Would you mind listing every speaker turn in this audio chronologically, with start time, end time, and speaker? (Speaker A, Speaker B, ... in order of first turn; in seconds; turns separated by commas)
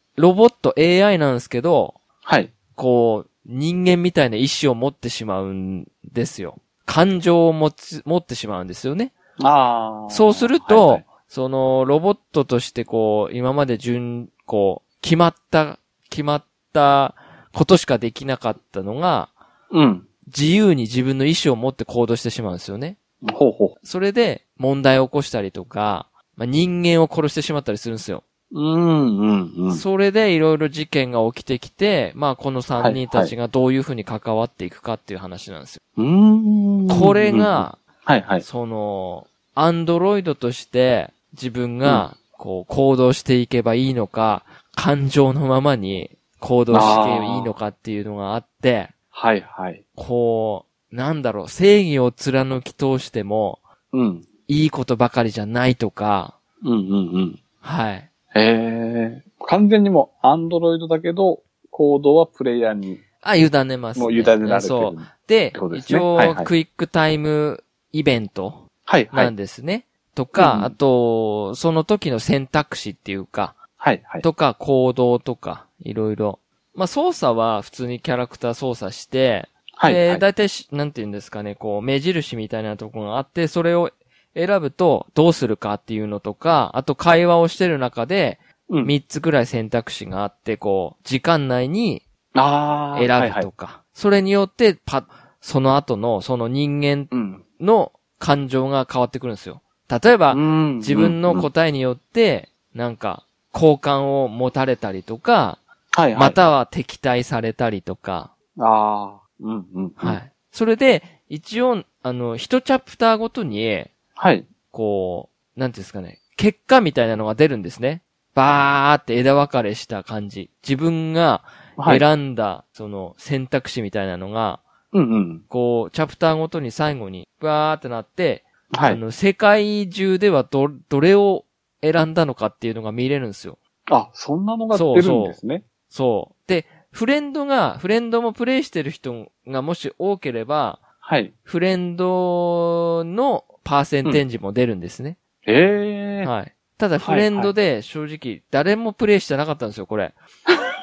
Speaker A: 0.2-2.0, Speaker B: 2.2-2.5, Speaker A: 2.7-9.1, Speaker B: 9.4-11.0, Speaker A: 10.1-19.3, Speaker B: 19.7-20.1, Speaker A: 20.3-23.0, Speaker B: 23.2-23.7, Speaker A: 23.8-28.2, Speaker B: 28.5-29.8, Speaker A: 29.7-35.8, Speaker B: 32.8-33.3, Speaker B: 36.0-38.4, Speaker A: 36.9-37.8, Speaker A: 38.4-48.9, Speaker B: 46.7-47.5, Speaker B: 49.1-49.8, Speaker A: 50.0-53.6, Speaker B: 53.9-54.3, Speaker A: 54.5-56.3, Speaker B: 56.6-57.4, Speaker A: 57.6-58.1, Speaker B: 58.3-63.0, Speaker A: 63.2-73.6, Speaker B: 64.0-66.5, Speaker B: 68.9-69.3, Speaker B: 70.3-70.7, Speaker B: 73.8-74.2, Speaker A: 74.2-92.0, Speaker B: 79.8-80.2, Speaker B: 88.7-88.9, Speaker B: 92.3-93.5, Speaker A: 92.9-105.6, Speaker B: 97.1-97.4, Speaker B: 100.3-101.5, Speaker B: 105.9-106.4, Speaker A: 106.1-108.3, Speaker B: 108.6-110.2, Speaker A: 110.0-113.9, Speaker B: 114.2-114.5, Speaker A: 114.7-124.6, Speaker B: 121.8-122.0, Speaker B: 124.9-125.4, Speaker A: 125.5-133.6, Speaker B: 128.7-129.0, Speaker B: 133.9-135.6, Speaker A: 134.7-135.4, Speaker A: 135.9-140.8, Speaker B: 141.0-141.3, Speaker A: 141.4-145.2, Speaker B: 145.4-146.3, Speaker A: 146.2-150.2, Speaker B: 147.0-147.5